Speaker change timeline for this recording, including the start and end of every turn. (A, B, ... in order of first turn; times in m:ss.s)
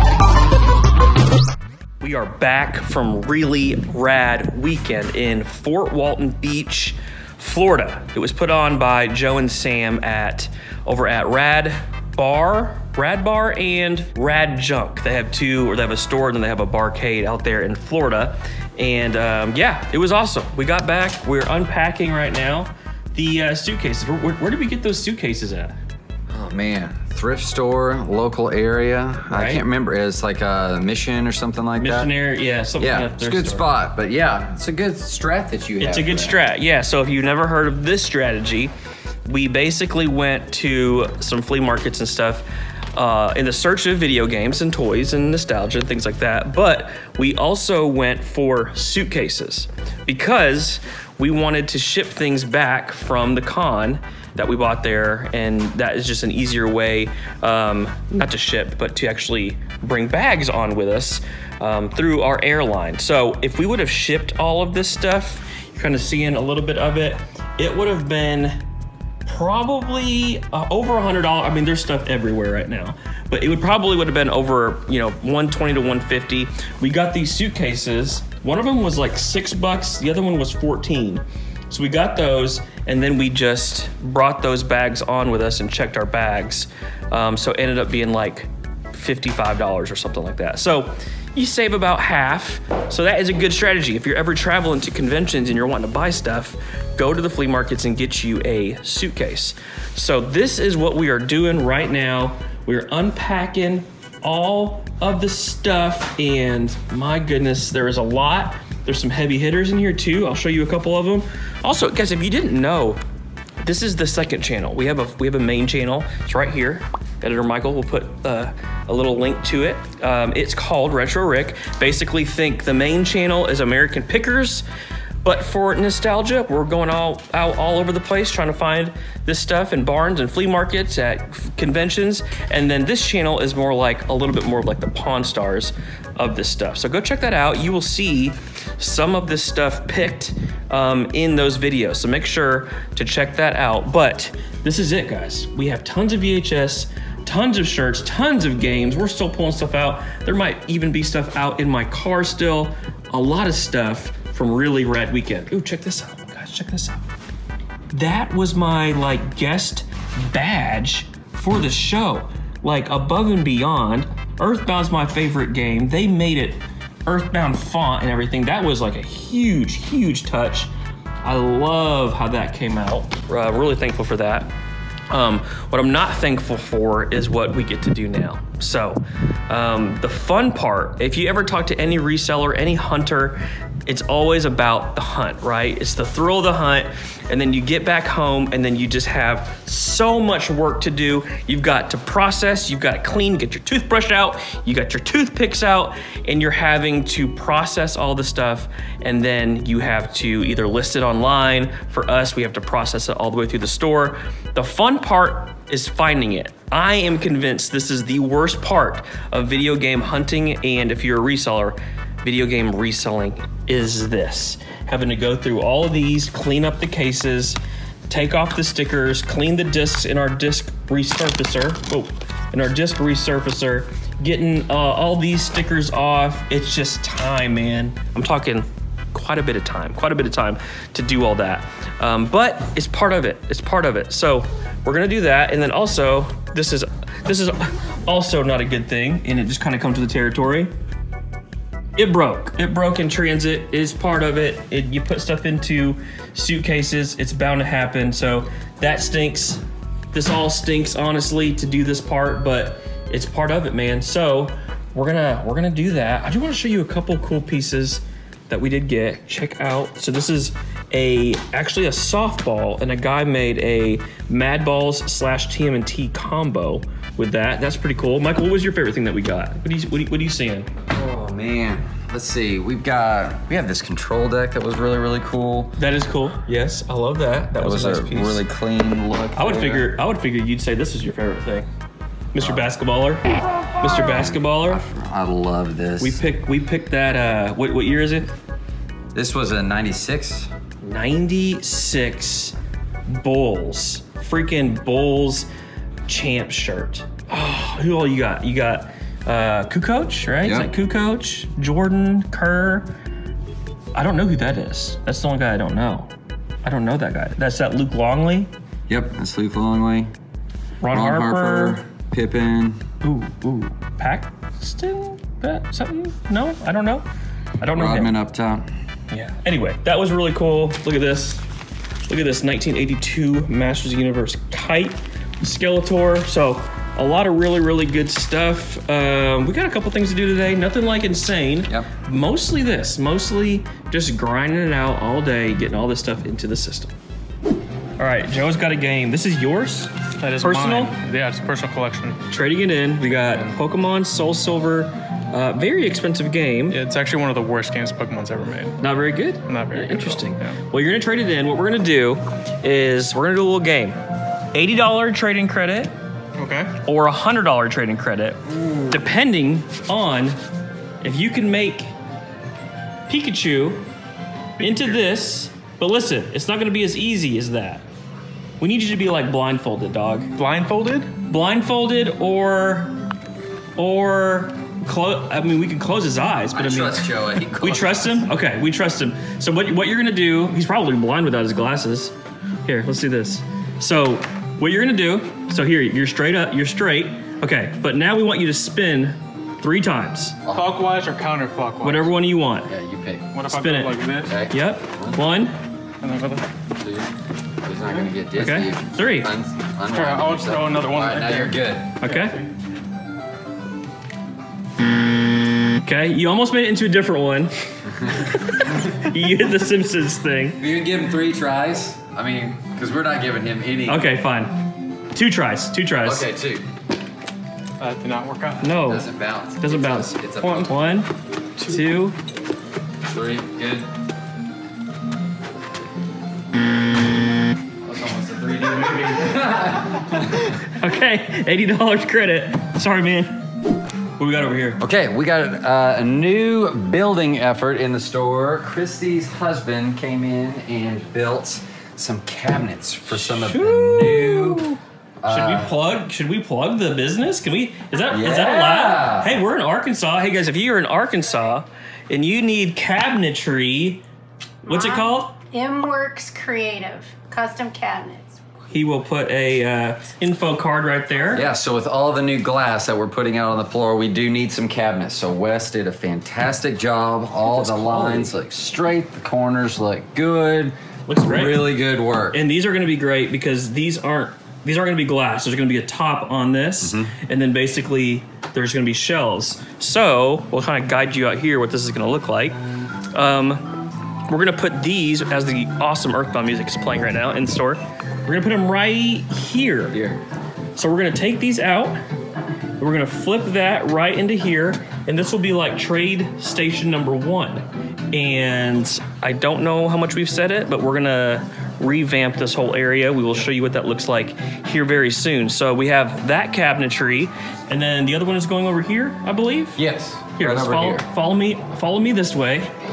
0:02.0-0:25.8 A
0:26.3-0:32.1 B
0:29.3-0:29.7 A
0:31.8-0:33.7 A
0:32.8-0:36.4 B
0:35.8-0:38.7 A
0:39.3-1:08.6 A
1:09.2-1:53.0 A
1:53.6-2:04.6 A
2:05.2-2:37.0 A
2:37.9-2:50.7 A
2:51.2-2:54.5 A
2:55.1-4:00.7 A
4:02.0-4:30.7 A
4:30.9-4:35.8 B
4:35.8-4:38.5 A
4:37.6-4:39.9 B
4:39.4-4:41.7 A
4:42.3-4:43.3 A
4:42.4-4:42.7 B
4:43.8-4:44.8 A
4:43.8-4:46.2 B
4:46.0-4:48.3 A
4:49.1-4:50.5 B
4:50.8-4:52.6 A
4:53.1-4:55.5 A
4:56.1-5:02.9 A
5:00.4-5:00.7 B
5:04.0-5:06.1 A
5:06.6-5:08.5 A
5:08.9-5:10.1 B
5:10.8-5:11.8 A
5:10.9-5:12.8 B
5:13.0-5:17.0 A
5:17.6-5:18.1 A
5:17.7-5:18.7 B
5:19.1-5:21.4 A
5:22.1-5:36.9 A
5:38.0-5:40.9 A
5:40.2-5:42.2 C
5:42.3-5:46.8 A
5:46.7-5:48.8 C
5:48.8-5:54.0 A
5:49.5-5:50.6 C
5:54.5-5:55.9 A
5:56.4-5:56.8 C
5:56.8-6:00.4 A
6:01.0-6:01.9 A
6:03.1-6:03.8 A
6:04.6-6:07.8 A
6:04.6-6:04.9 C
6:08.6-6:10.3 A
6:10.4-6:11.1 C
6:11.2-6:13.0 A
6:13.8-6:30.4 A
6:16.5-6:18.0 B
6:17.8-6:18.1 C
6:30.5-6:30.8 B
6:30.5-6:32.1 C
6:31.8-6:32.7 A
6:32.7-6:33.3 B
6:33.3-6:34.4 C
6:33.5-6:35.6 A
6:34.3-6:35.2 B
6:36.0-6:36.5 C
6:36.7-6:42.0 B
6:38.4-6:39.3 A
6:39.9-6:42.5 C
6:42.0-6:42.4 A
6:45.7-6:47.5 A
6:48.1-6:50.6 A
6:48.3-6:49.0 B
6:50.6-6:54.1 B
6:53.9-6:56.3 A
6:56.0-6:56.7 B
6:57.8-6:58.8 C
6:58.6-6:59.1 A
6:58.8-7:00.7 B
6:59.6-7:02.2 A
7:03.1-7:03.9 B
7:07.8-7:10.6 B
7:10.5-7:13.4 A
7:14.2-7:14.8 A
7:14.8-7:25.7 B
7:23.1-7:34.0 A
7:28.1-7:29.4 B
7:34.7-7:38.4 D
7:34.7-7:35.4 A
7:38.7-7:41.5 A
7:41.3-7:52.4 B
7:47.5-7:48.3 A
7:51.1-7:51.6 A
7:52.3-8:02.6 A
7:56.8-7:57.1 B
8:03.1-8:03.7 A
8:04.3-8:10.0 A
8:09.9-8:10.2 B
8:10.8-8:12.0 A
8:12.8-8:29.8 A
8:29.8-8:31.1 B
8:30.4-8:32.7 A